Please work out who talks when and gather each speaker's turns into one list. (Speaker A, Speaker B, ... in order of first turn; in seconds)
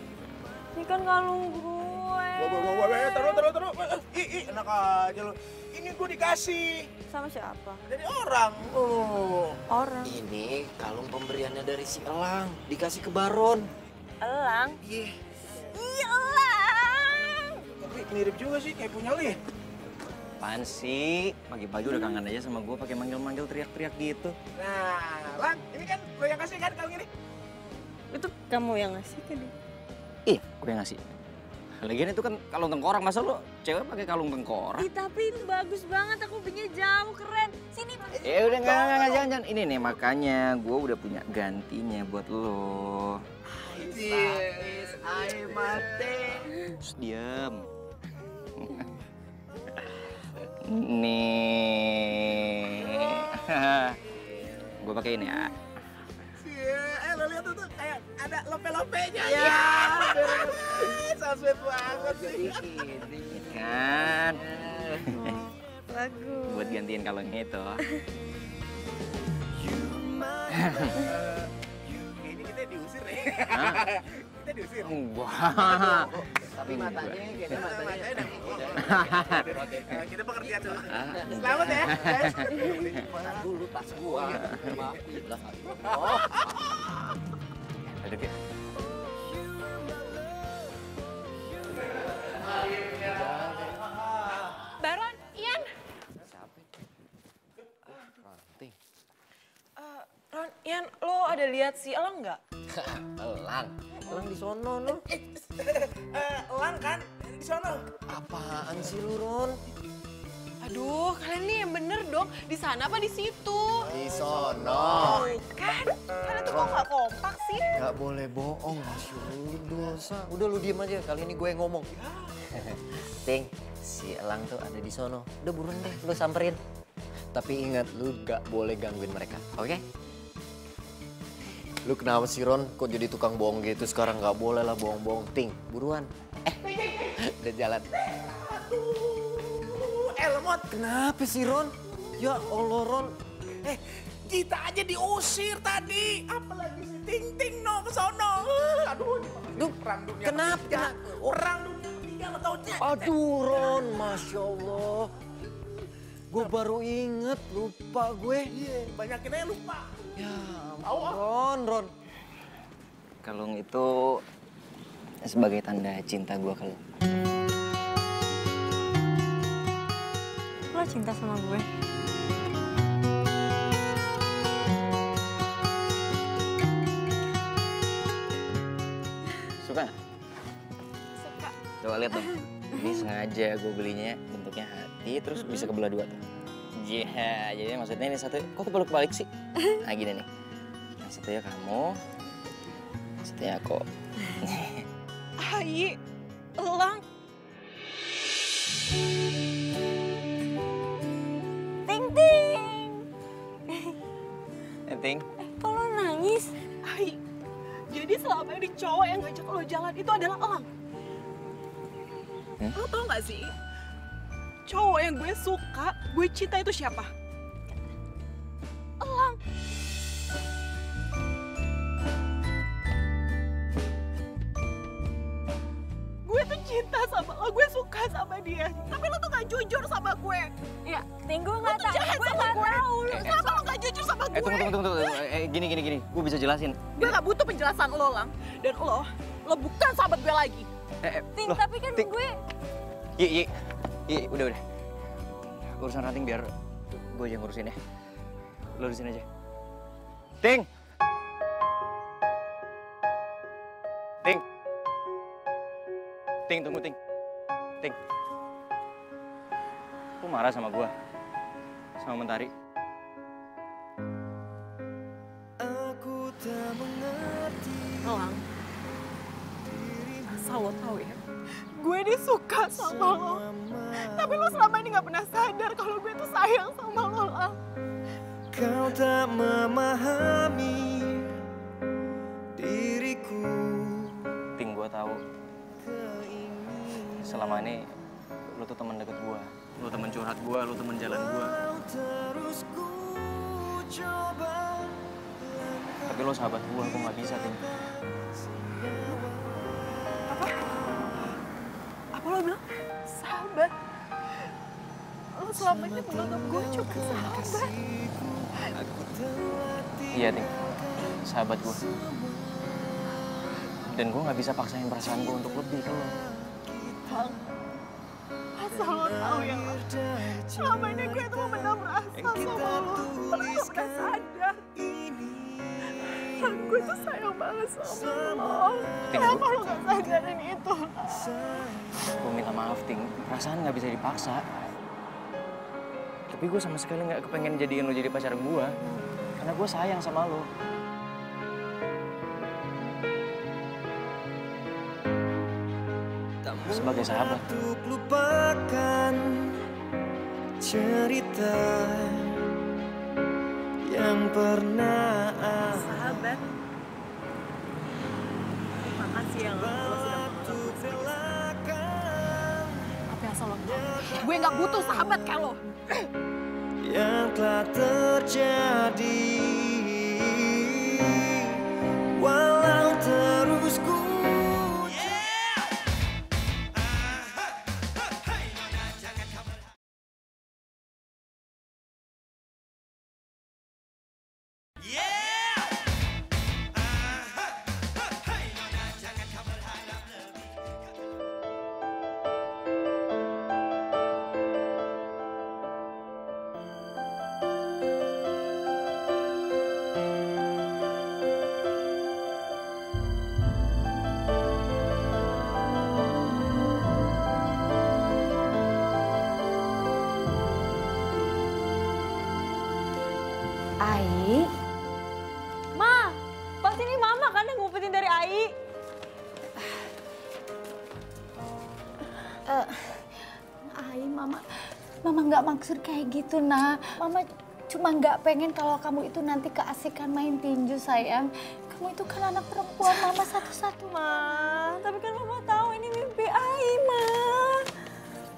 Speaker A: 0.8-3.5, 7.1-7.8, 9.7-10.2, 14.2-14.8, 15.6-17.6, 21.9-22.1, 28.1-29.5, 34.8-39.2, 66.0-66.7, 170.7-171.7, 201.9-203.0, 203.7-204.0, 205.4-206.5, 230.9-233.5, 241.4-242.3, 415.8-418.5, 433.9-437.7
Speaker B: 2.4-6.9, 7.9-9.6, 17.8-19.4, 24.6-27.1, 43.6-46.4, 56.4-62.7, 71.0-74.9, 76.7-83.5, 84.0-84.6, 85.9-86.4, 105.1-107.9, 113.9-115.3, 136.6-137.1, 138.1-140.7, 143.7-153.1, 158.5-159.9, 160.8-161.2
Speaker C: 10.0-13.7, 59.5-60.9, 61.9-65.2, 75.7-79.9, 80.8-86.5, 93.0-93.9, 96.2-96.7, 97.9-98.8, 102.7-105.1, 108.1-109.6, 113.9-115.3, 116.5-116.8, 117.7-121.9, 122.5-126.6, 127.3-129.8, 131.8-136.6, 137.2-137.9, 140.7-143.1, 149.6-151.4, 152.8-155.1, 156.3-158.5, 160.2-161.9
Speaker D: 20.4-24.4, 30.3-31.0, 31.8-34.9, 38.2-43.2, 46.8-47.7, 50.6-54.0, 54.8-55.5, 63.3-64.4, 66.5-67.8, 70.6-70.9, 73.5-73.8, 74.8-76.1, 76.7-77.2, 78.9-79.4, 88.0-88.3, 163.2-164.2, 165.3-166.8, 179.6-179.9, 181.8-186.2, 186.8-190.3, 191.0-192.0, 193.2-193.8, 194.4-194.8, 204.9-205.2, 233.1-233.4, 234.3-237.1, 241.0-242.1, 243.2-243.5, 244.1-244.6, 245.8-247.8, 248.8-249.2, 250.4-250.7, 256.5-257.0, 260.2-260.9, 262.0-262.5, 284.6-285.2, 287.2-287.9, 288.5-291.6, 296.1-297.6, 310.1-310.5, 311.2-311.8, 313.9-316.1, 329.1-329.5, 332.2-334.4, 336.3-338.7, 339.4-340.5, 346.6-347.4
Speaker E: 69.5-70.9, 89.2-90.9, 265.6-268.3, 269.6-270.3, 272.7-274.7, 278.5-281.3, 282.6-284.2, 285.8-287.8, 291.1-301.2, 305.5-313.1, 315.0-317.4, 318.6-327.3, 327.8-330.4, 331.1-331.8, 346.4-349.5, 350.6-352.4, 353.8-356.4, 359.4-362.9, 363.6-365.4, 366.8-371.6, 372.1-375.3
Speaker F: 94.8-95.7, 99.8-102.4, 110.6-113.9, 115.0-117.7, 181.2-181.5, 195.4-196.0, 196.6-197.0, 206.8-207.2, 207.9-210.7, 212.7-213.5, 214.7-217.1, 219.0-219.4, 226.2-230.5, 231.6-235.2, 236.9-240.7, 268.0-268.4, 270.3-271.2, 271.8-273.4, 274.1-277.6, 300.3-300.6, 302.1-303.7, 305.4-307.7, 318.6-319.8, 320.6-324.6, 326.1-331.1, 355.7-356.5, 358.8-361.1, 363.1-365.6
Speaker G: 413.8-414.5, 422.5-423.0, 423.7-424.4, 425.1-433.9